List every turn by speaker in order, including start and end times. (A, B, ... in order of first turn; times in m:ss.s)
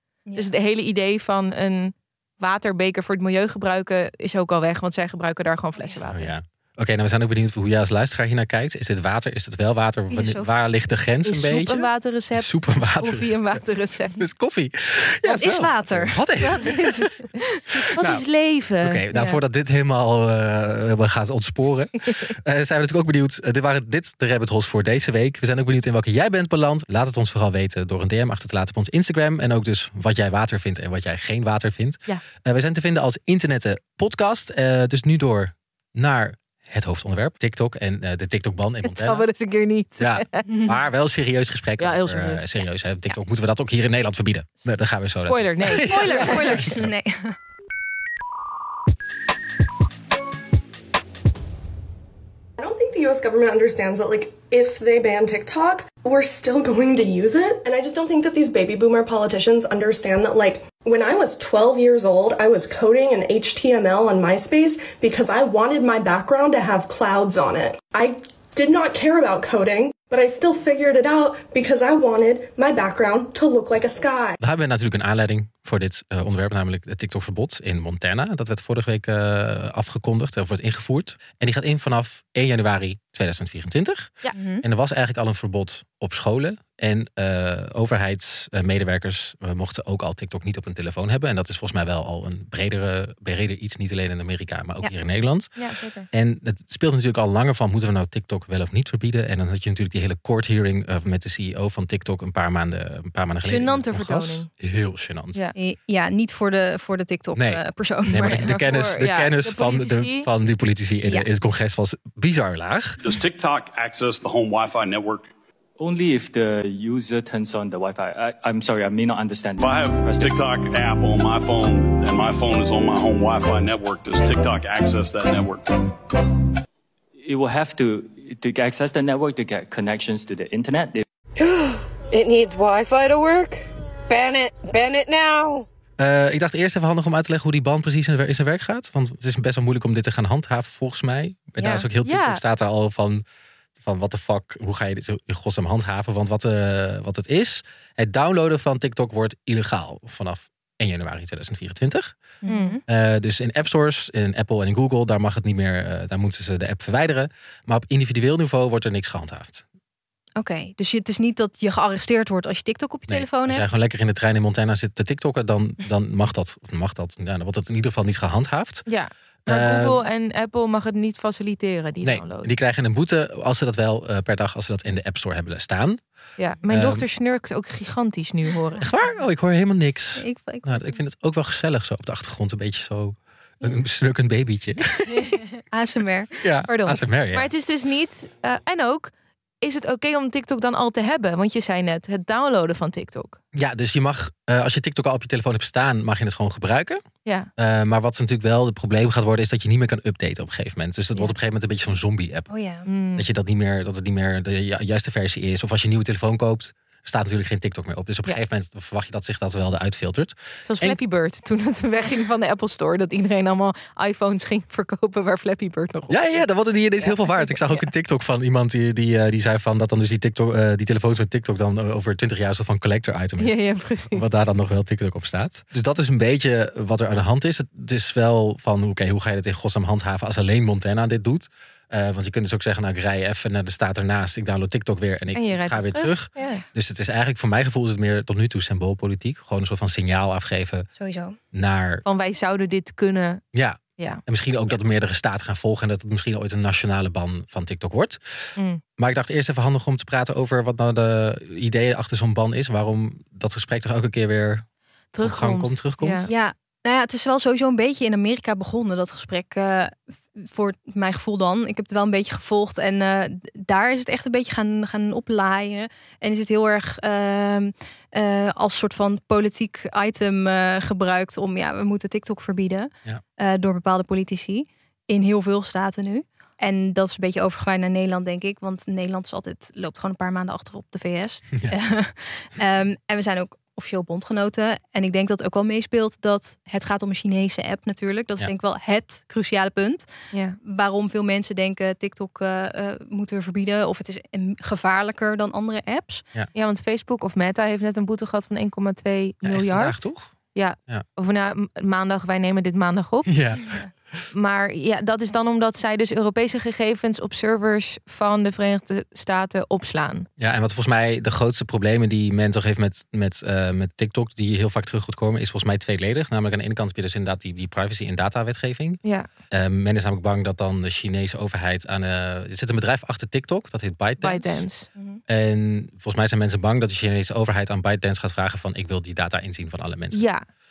0:00.4-0:06.3 A
0:06.1-0:13.6 B
0:10.1-0:10.5 C
0:11.2-0:14.2 A
0:14.2-0:17.1 B
0:15.2-0:16.7 C
0:16.4-0:19.4 A
0:17.8-0:18.2 B
0:18.8-0:39.3 B
0:38.8-0:40.5 A
0:40.0-0:46.9 B
0:40.5-0:40.8 C
0:41.8-0:42.4 A
0:45.3-0:46.6 A
0:45.8-0:47.4 C
0:52.6-1:14.4 D
1:14.4-1:35.6 B
1:24.3-1:24.6 C
1:35.6-1:36.1 A
1:36.1-1:45.4 B
1:43.4-1:44.5 A
1:45.6-1:48.6 C
1:47.4-1:53.0 B
1:48.2-1:50.3 A
1:53.0-1:55.3 E
1:55.8-2:00.4 F
1:59.6-2:05.8 E
2:07.2-2:11.0 F
2:12.1-2:15.6 G
2:16.0-2:23.2 B
2:21.6-2:21.8 C
2:22.0-2:22.4 A
2:23.8-2:32.2 B
2:32.4-2:32.8 C
2:32.5-2:32.8 A
2:32.9-2:39.6 B
2:40.4-2:43.6 C
2:43.1-2:48.8 B
2:48.9-2:52.5 A
2:49.5-2:50.0 B
2:52.0-2:56.0 B
2:56.4-2:58.8 A
2:56.7-2:57.0 B
2:58.8-3:05.3 B
3:00.2-3:01.0 C
3:05.7-3:06.3 C
3:06.4-3:07.5 B
3:06.7-3:09.1 A
3:09.6-3:13.4 A
3:13.5-3:17.0 B
3:17.2-3:17.5 A
3:17.6-3:22.5 B
3:22.5-3:22.9 C
3:22.9-3:23.3 A
3:23.2-3:31.0 B
3:30.7-3:36.4 A
3:36.1-4:00.9 B
3:37.0-3:37.9 A
3:43.4-3:44.3 A
3:55.3-3:56.6 A
4:01.0-4:01.4 C
4:01.5-4:02.0 B
4:02.0-4:03.4 A
4:03.5-4:08.2 B
4:09.0-4:14.6 B
4:15.1-4:16.3 A
4:15.2-4:16.3 B
4:16.3-4:50.1 C
4:50.3-4:50.6 A
4:50.6-4:56.2 C
4:56.5-5:03.3 A
4:59.4-5:00.3 B
5:03.3-5:04.2 B
5:04.3-5:10.3 A
5:10.4-5:19.0 B
5:19.5-5:24.7 B
5:24.2-5:24.9 A
5:25.0-5:25.2 C
5:25.3-5:30.2 B
5:30.1-5:30.4 A